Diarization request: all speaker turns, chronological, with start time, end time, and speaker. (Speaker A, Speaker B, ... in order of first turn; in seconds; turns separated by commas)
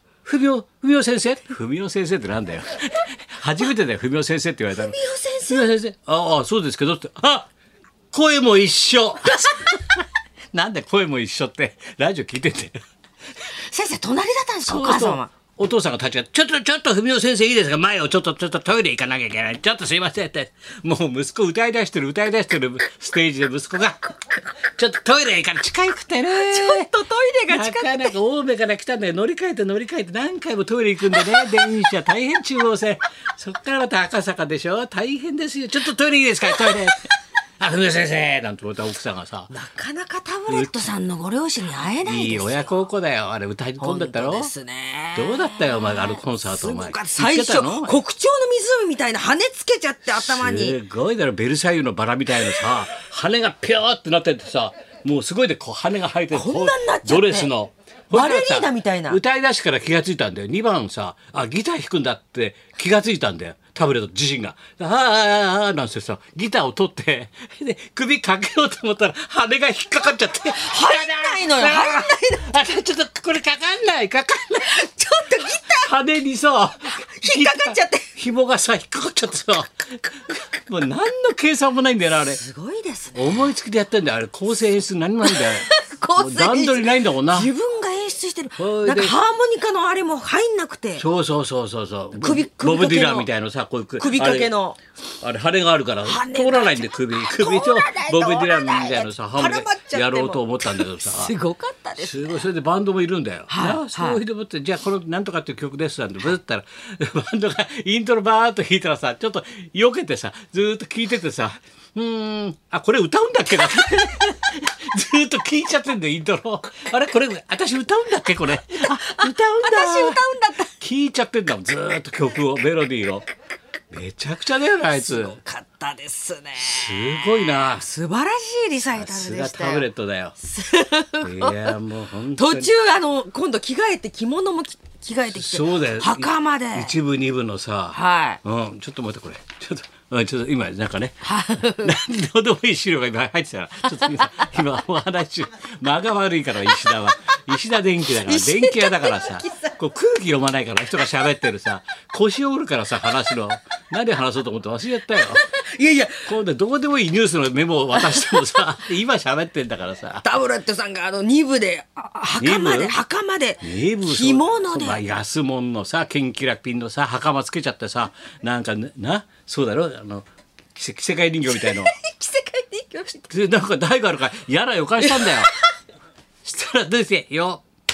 Speaker A: 0.2-7.5, Speaker B: 4.7-5.7, Speaker A: 8.1-10.0, Speaker A: 10.5-12.8, Speaker B: 13.6-15.3, Speaker A: 14.7-26.9, Speaker B: 26.3-28.1, Speaker A: 27.5-39.5, Speaker B: 31.1-31.6, Speaker B: 36.5-37.0, Speaker B: 39.5-42.7, Speaker A: 40.5-40.9, Speaker A: 42.0-44.5, Speaker B: 43.8-50.8, Speaker A: 45.1-48.0, Speaker A: 50.1-74.8, Speaker B: 56.3-57.5, Speaker B: 58.1-59.2, Speaker B: 70.3-72.8, Speaker B: 74.6-75.9, Speaker A: 75.7-82.4, Speaker B: 77.1-78.0, Speaker B: 82.3-83.3, Speaker A: 83.1-87.5, Speaker B: 85.2-91.0, Speaker A: 88.6-89.1, Speaker A: 91.0-94.5, Speaker B: 92.2-93.3, Speaker B: 94.0-94.8, Speaker A: 95.2-101.3, Speaker B: 96.0-102.4, Speaker A: 102.0-120.2, Speaker B: 103.5-104.2, Speaker B: 118.7-120.7, Speaker A: 120.8-123.2, Speaker A: 123.9-125.4, Speaker B: 124.9-129.9, Speaker A: 126.6-127.9, Speaker A: 128.9-130.4, Speaker B: 130.4-131.8, Speaker A: 131.2-132.7, Speaker B: 132.3-136.9, Speaker A: 135.3-155.5, Speaker B: 137.9-138.4, Speaker B: 141.2-141.9, Speaker B: 148.2-149.7, Speaker B: 155.3-156.3, Speaker A: 156.2-160.3, Speaker B: 157.9-158.6, Speaker B: 160.2-165.0, Speaker A: 162.4-162.9, Speaker A: 163.6-171.9, Speaker B: 171.5-173.3, Speaker A: 173.3-175.5, Speaker B: 175.0-175.7, Speaker A: 176.4-177.6